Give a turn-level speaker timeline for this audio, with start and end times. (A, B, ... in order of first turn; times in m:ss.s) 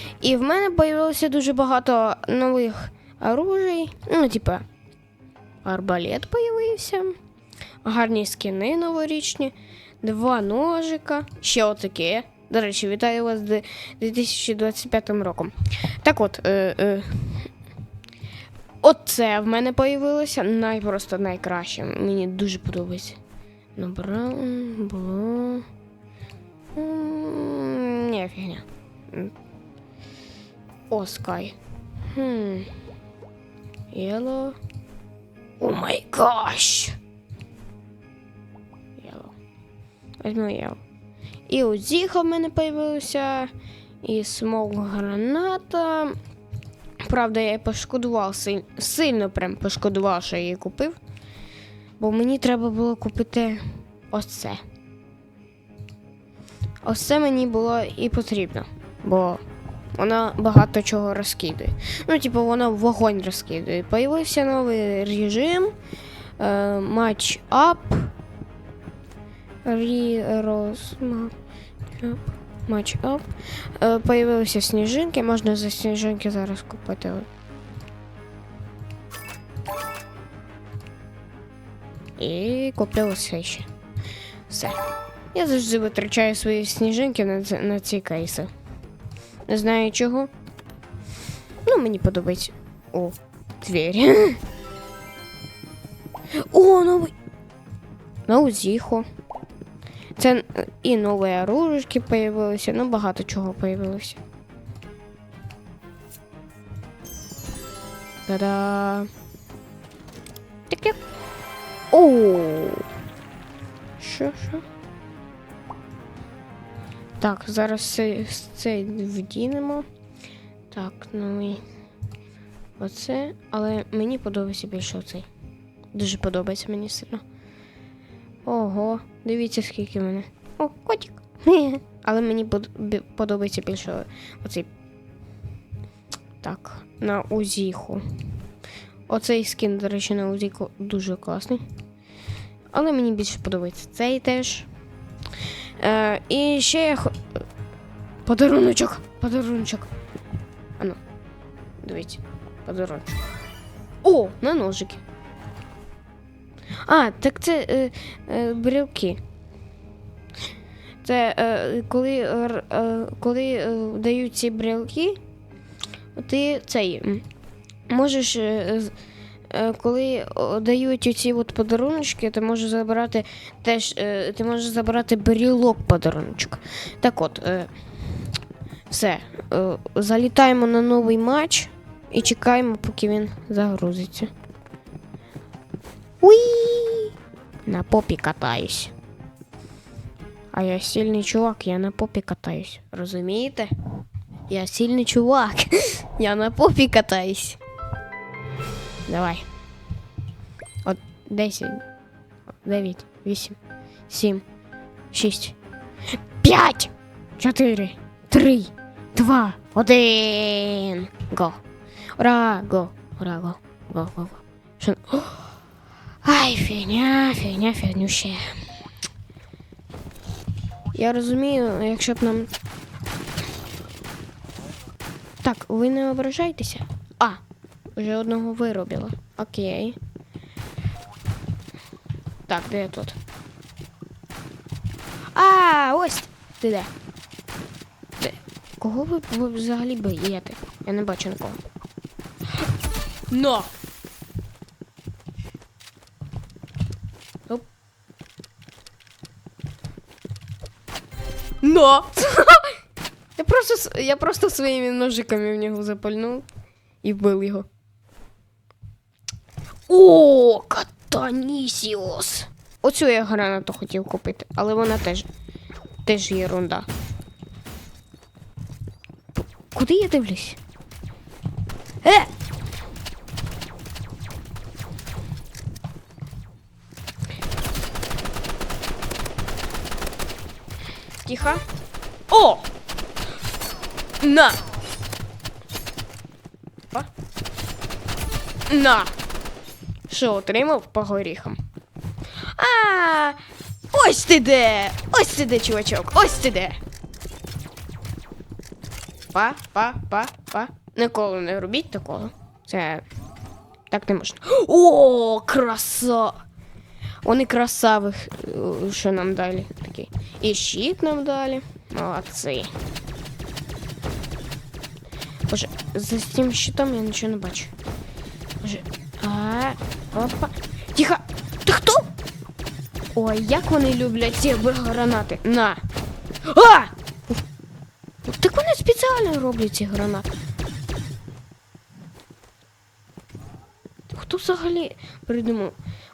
0:00.2-0:04.6 A
0:05.6-0:07.2 A
0:07.8-0:17.5 A
0:18.8-0:23.2 A
0:23.8-0:25.7 A
0:26.8-0:29.3 A
0:30.9-0:31.6 A
0:32.1-0:32.7 A
0:33.9-0:34.6 A
0:35.6-0:37.0 A
0:39.0-0:39.4 A
0:40.2-0:40.8 A
0:41.5-0:46.2 A
0:47.0-0:51.0 A
0:52.0-0:54.6 A
0:56.8-0:59.4 A
1:00.0-1:05.8 A
1:06.4-1:08.1 A
1:09.6-1:11.3 A
1:12.0-1:17.3 A
1:22.2-1:23.7 A
1:24.5-1:24.8 A
1:25.3-1:28.5 A
1:29.5-1:30.3 A
1:31.6-1:34.4 A
1:36.4-1:37.1 A
1:38.3-1:39.1 A
1:40.2-1:44.2 A
1:48.3-1:49.1 A
1:50.7-1:51.0 A
1:51.9-1:52.9 A
1:54.0-1:54.6 A
1:57.2-1:59.9 A
2:00.7-2:01.6 A
2:02.8-2:05.3 A
2:05.9-2:07.2 A
2:08.4-2:14.7 A
2:16.4-2:18.2 A
2:19.1-2:21.6 A
2:22.7-2:24.7 A
2:25.8-2:27.4 A
2:28.3-2:29.9 A
2:31.8-2:33.2 A
2:34.0-2:35.0 A
2:36.9-2:39.2 A
2:41.0-2:45.2 A
2:46.2-2:47.3 A
2:47.9-2:49.0 A
2:49.5-2:57.8 A
2:58.9-3:04.3 A
3:06.2-3:07.2 A
3:07.7-3:08.9 A
3:10.5-3:13.7 A
3:14.5-3:17.6 A
3:19.1-3:19.5 A
3:20.8-3:21.8 A
3:22.6-3:23.6 A
3:24.1-3:24.4 A
3:25.1-3:25.6 A
3:26.4-3:31.6 A
3:32.2-3:35.6 A
3:36.2-3:38.6 A
3:40.9-3:42.5 A
3:45.4-3:47.4 A
3:48.0-3:50.0 A
3:52.5-3:53.2 A
3:55.3-3:56.9 A
3:58.2-4:01.6 A
4:03.3-4:03.7 A
4:11.6-4:12.7 A
4:13.4-4:16.5 A
4:17.0-4:17.7 A
4:19.9-4:25.3 A
4:26.0-4:26.9 A
4:29.7-4:30.6 A
4:32.0-4:32.3 A
4:41.2-4:41.6 A
4:42.3-4:42.7 A
4:44.2-4:44.6 A
4:48.7-4:49.1 A
4:50.1-4:51.6 A
4:52.5-4:53.4 A
4:53.9-4:56.8 A
4:59.3-5:03.0 A
5:03.9-5:06.4 A
5:07.2-5:12.7 A
5:15.5-5:17.7 A
5:18.6-5:22.1 A
5:23.1-5:25.8 A
5:26.5-5:27.4 A
5:28.2-5:30.3 A
5:34.1-5:35.8 A